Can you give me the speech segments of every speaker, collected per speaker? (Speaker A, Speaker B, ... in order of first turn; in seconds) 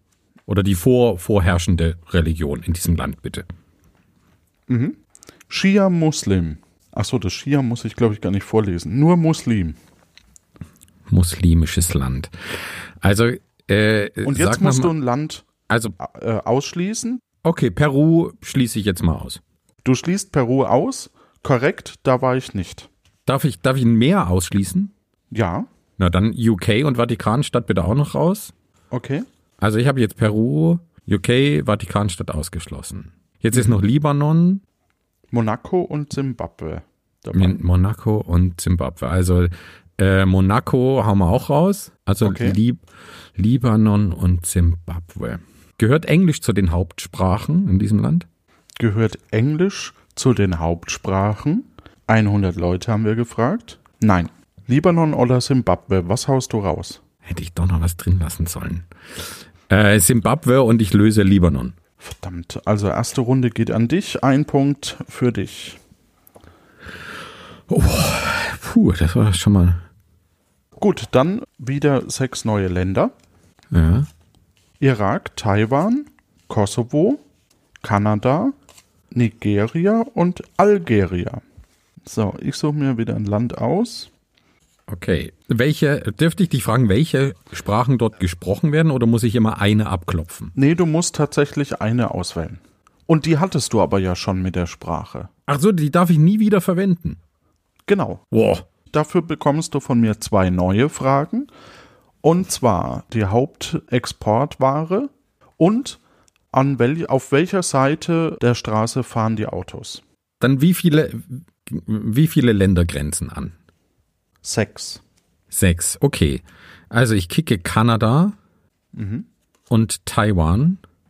Speaker A: 0.5-3.5, 11.1-14.9, 15.7-15.9, 17.4-19.4, 23.3-24.9, 26.0-28.5, 29.6-34.6, 37.4-42.9, 43.4-48.3, 57.2-58.9, 59.7-61.8, 67.7-69.8, 73.7-74.1, 84.9-90.5, 95.5-97.2, 98.3-98.7, 110.4-113.5, 115.5-118.4, 119.7-120.8
Speaker B: 4.7-9.8, 14.2-15.5, 16.0-17.2, 19.8-22.9, 25.3-25.7, 28.9-29.2, 35.3-37.6, 42.2-42.6, 48.8-57.0, 62.0-65.8, 70.8-73.1, 74.8-77.2, 77.8-78.5, 79.1-81.4, 82.1-84.1, 90.6-95.3, 97.9-98.2, 98.9-101.5, 102.2-106.0, 106.5-110.0, 114.4-115.0, 118.9-119.3